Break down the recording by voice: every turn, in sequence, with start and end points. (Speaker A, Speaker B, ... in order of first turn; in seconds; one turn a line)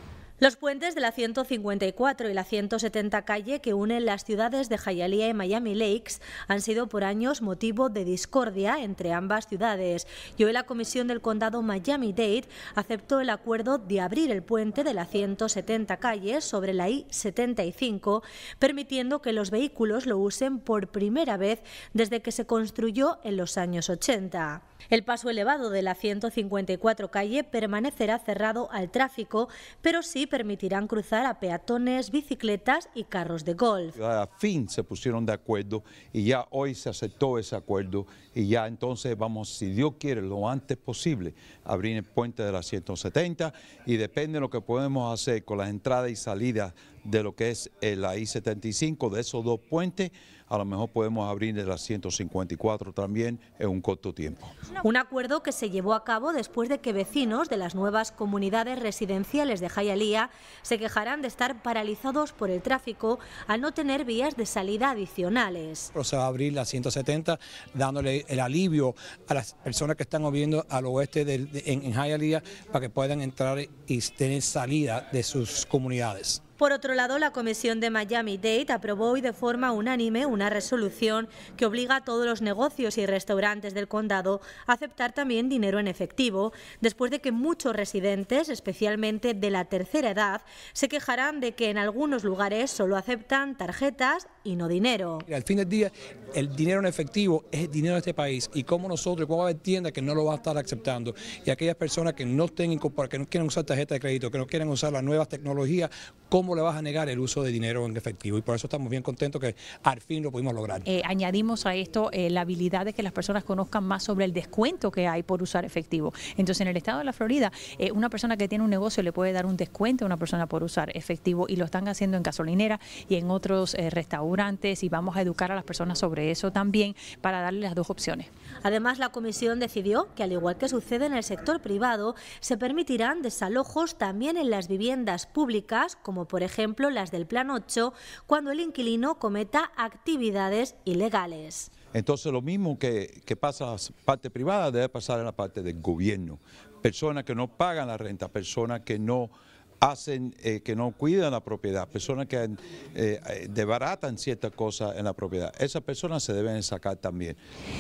Speaker A: 0.4-34.0
Speaker B: 34.0-54.5
Speaker A: 54.8-65.9
Speaker C: 66.0-76.4
Speaker A: 76.6-95.3
Speaker C: 95.3-110.9
Speaker D: 110.9-128.3
Speaker A: 128.6-141.7
Speaker B: 141.9-157.4